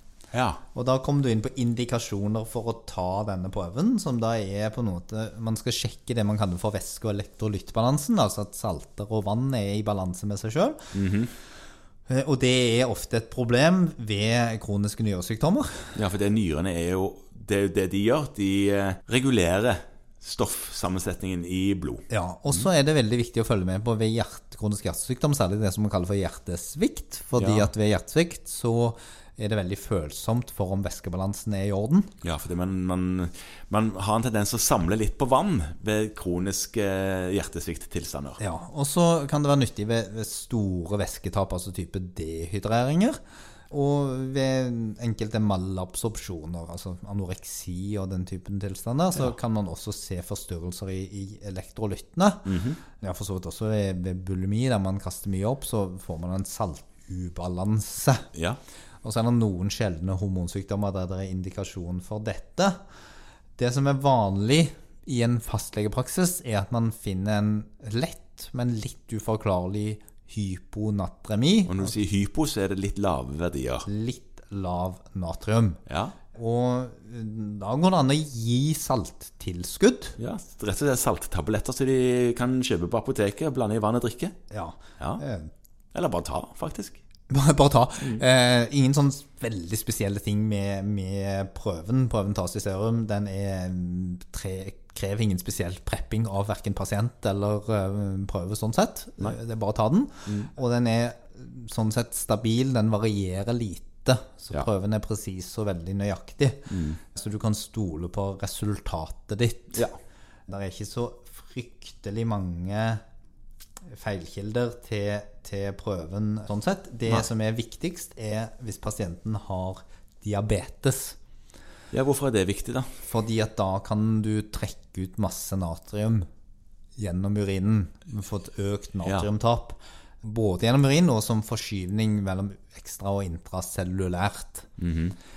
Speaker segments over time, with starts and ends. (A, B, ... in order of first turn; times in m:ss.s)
0:00.3-0:00.6 A
0:00.8-0:10.9 B
0:10.9-0:11.3 A
0:12.1-0:16.0 B
0:16.0-0:22.0 A
0:22.1-0:32.1 B
0:27.4-0:27.7 A
0:32.2-0:38.4 A
0:38.4-0:43.2 B
0:43.7-0:58.3 B
0:52.5-0:52.8 A
0:58.3-0:58.6 A
0:59.0-1:02.8 B
1:03.6-1:12.0 B
1:11.7-1:13.9 A
1:13.9-1:15.8 B
1:15.9-1:16.2 A
1:16.3-1:20.2 B
1:20.2-1:24.4 A
1:24.5-1:25.5 B
1:25.9-1:27.0 A
1:27.3-1:49.9 B
1:46.7-1:47.0 A
1:50.5-1:53.0 B
1:53.9-2:01.2 B
2:01.9-2:02.9 A
2:03.0-2:06.3 B
2:07.0-2:14.7 B
2:14.8-2:15.2 A